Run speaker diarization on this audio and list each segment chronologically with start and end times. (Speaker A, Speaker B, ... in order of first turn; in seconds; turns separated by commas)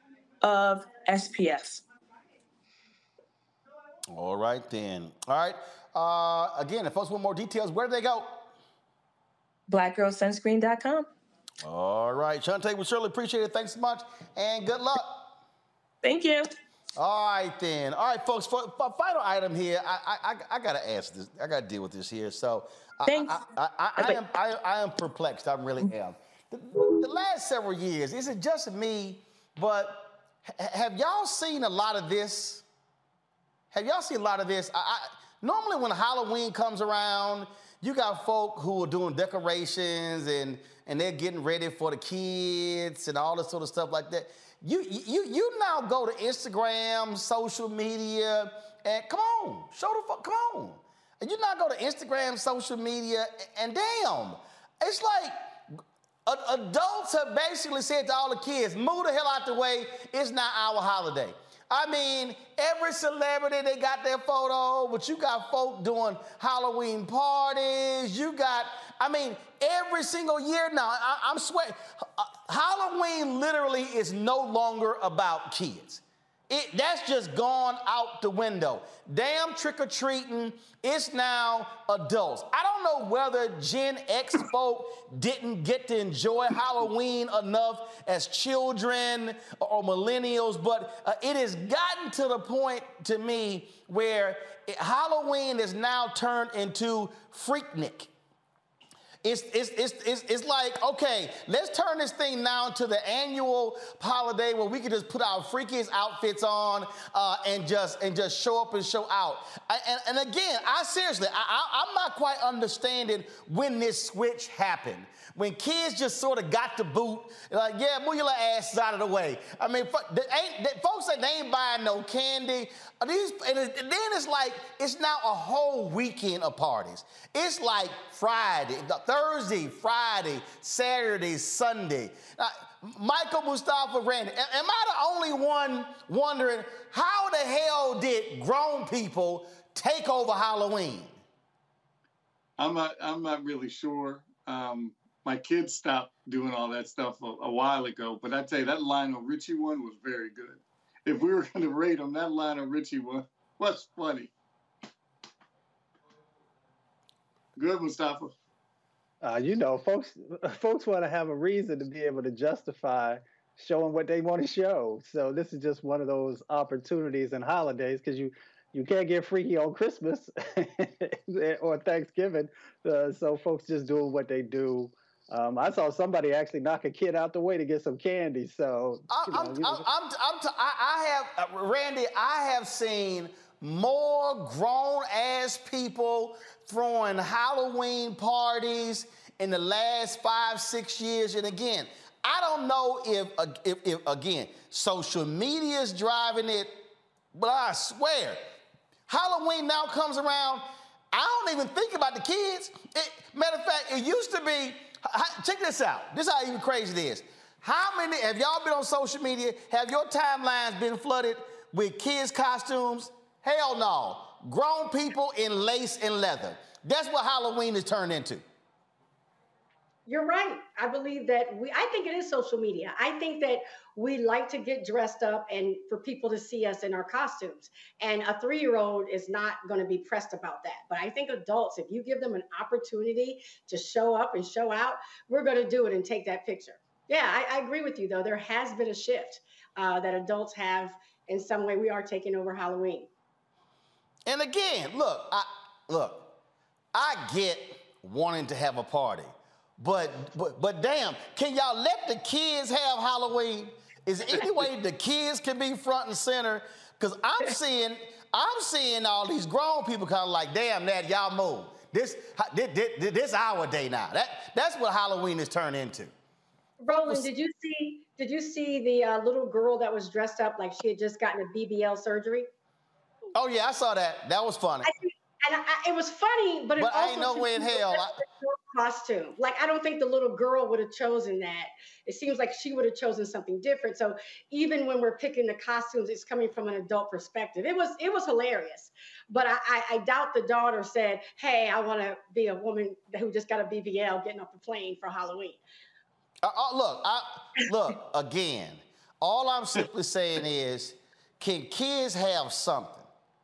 Speaker A: 0.4-1.8, Speaker B: 4.1-8.5, Speaker A: 9.7-11.1, Speaker B: 11.6-15.3, Speaker A: 16.0-16.5, Speaker B: 16.9-32.6, Speaker A: 23.1-23.4, Speaker A: 24.0-24.2, Speaker B: 33.7-98.1, Speaker B: 99.2-141.2, Speaker C: 142.6-154.3, Speaker C: 157.6-158.3, Speaker D: 159.2-179.8, Speaker B: 179.1-196.8, Speaker B: 197.3-198.4, Speaker B: 199.1-218.4, Speaker E: 220.1-243.1, Speaker B: 244.3-246.3, Speaker B: 246.9-266.1, Speaker E: 266.8-272.5, Speaker B: 273.4-274.9, Speaker E: 274.8-295.6, Speaker B: 276.8-278.1, Speaker B: 296.4-303.1